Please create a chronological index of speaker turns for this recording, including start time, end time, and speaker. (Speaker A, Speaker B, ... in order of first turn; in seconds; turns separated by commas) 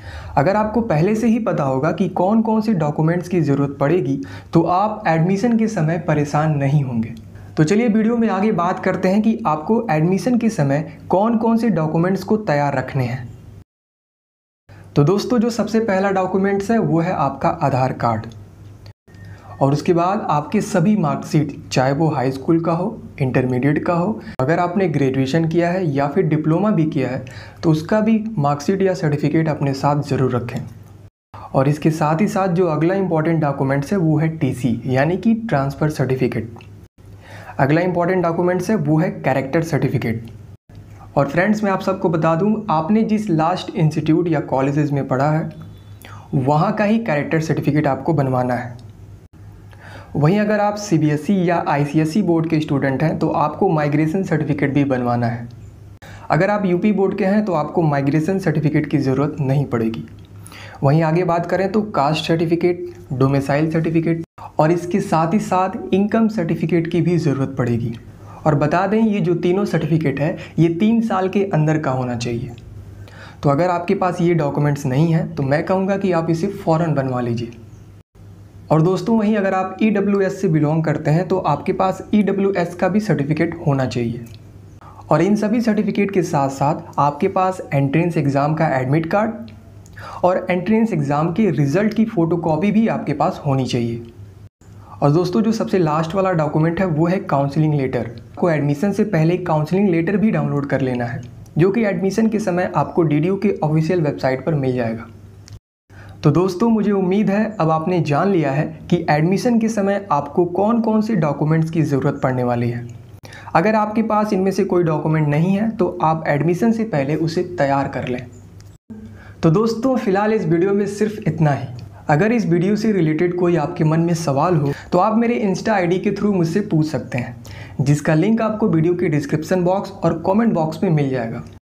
Speaker A: 0.3-13.3, Speaker A: 14.9-18.3, Speaker A: 19.6-30.7, Speaker A: 31.5-36.6, Speaker A: 37.6-40.3, Speaker A: 41.1-45.5, Speaker A: 46.3-48.8, Speaker A: 50.1-55.5, Speaker A: 56.3-60.1, Speaker A: 60.8-72.5, Speaker A: 73.4-77.5, Speaker A: 78.7-84.2, Speaker A: 85.1-89.5, Speaker A: 90.2-94.0, Speaker A: 95.0-105.1, Speaker A: 106.2-112.8, Speaker A: 113.5-118.3, Speaker A: 119.4-131.4